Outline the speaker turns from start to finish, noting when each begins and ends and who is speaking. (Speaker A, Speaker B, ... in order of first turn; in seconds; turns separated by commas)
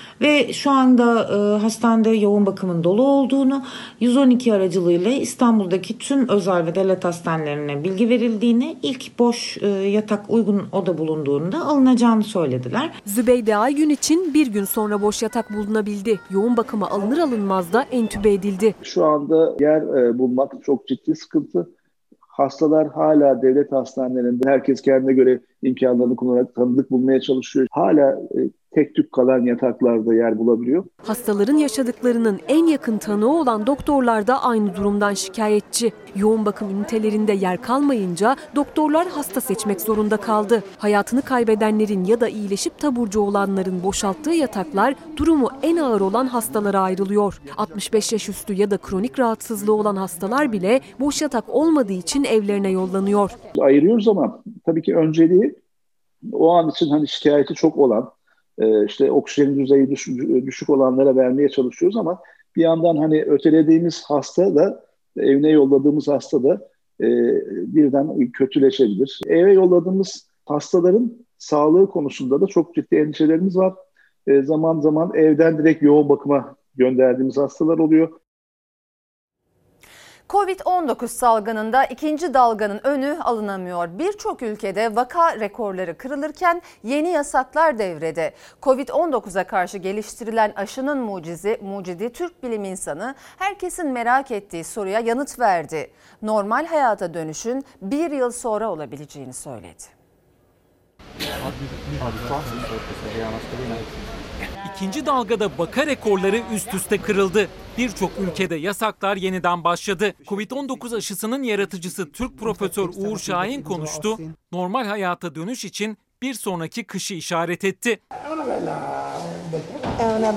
Speaker A: 0.2-13.0, Speaker B: 13.0-18.8, Speaker C: 18.8-21.7, Speaker C: 22.3-30.9, Speaker B: 31.0-53.4, Speaker C: 53.5-55.6, Speaker C: 56.3-78.2, Speaker D: 80.3-99.9, Speaker E: 104.6-118.0